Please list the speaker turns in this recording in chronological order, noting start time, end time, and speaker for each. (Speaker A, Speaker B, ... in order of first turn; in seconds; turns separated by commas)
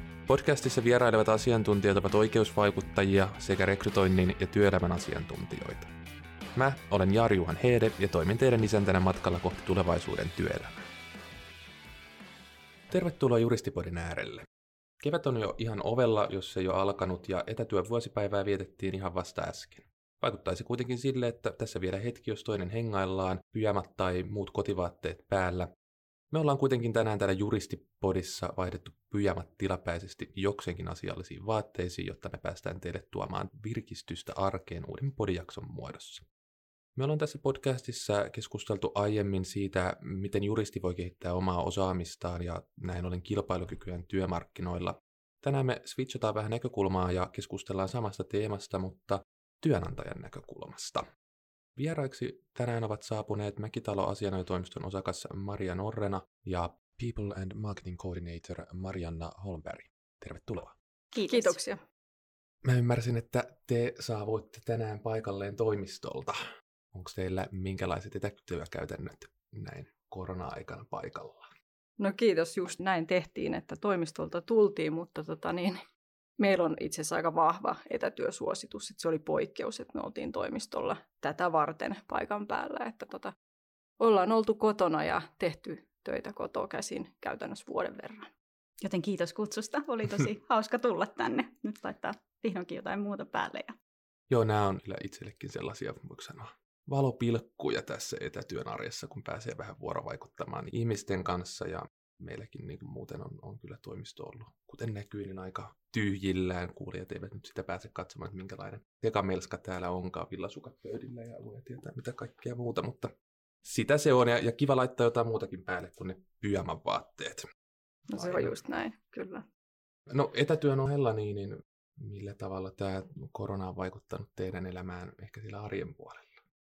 Speaker A: 0.3-5.9, Speaker A: 6.5-10.8, Speaker A: 12.9-14.4, Speaker A: 15.0-25.7, Speaker A: 26.3-36.2, Speaker A: 37.0-51.1, Speaker A: 51.8-60.7, Speaker B: 61.1-61.6, Speaker C: 61.3-61.8, Speaker A: 62.6-66.4, Speaker A: 66.9-71.5, Speaker C: 72.0-75.8, Speaker C: 76.4-83.3, Speaker C: 84.0-88.3, Speaker B: 88.8-93.8, Speaker A: 94.3-113.1, Speaker A: 113.6-117.4, Speaker C: 118.1-119.5, Speaker A: 118.2-118.5, Speaker A: 120.1-126.4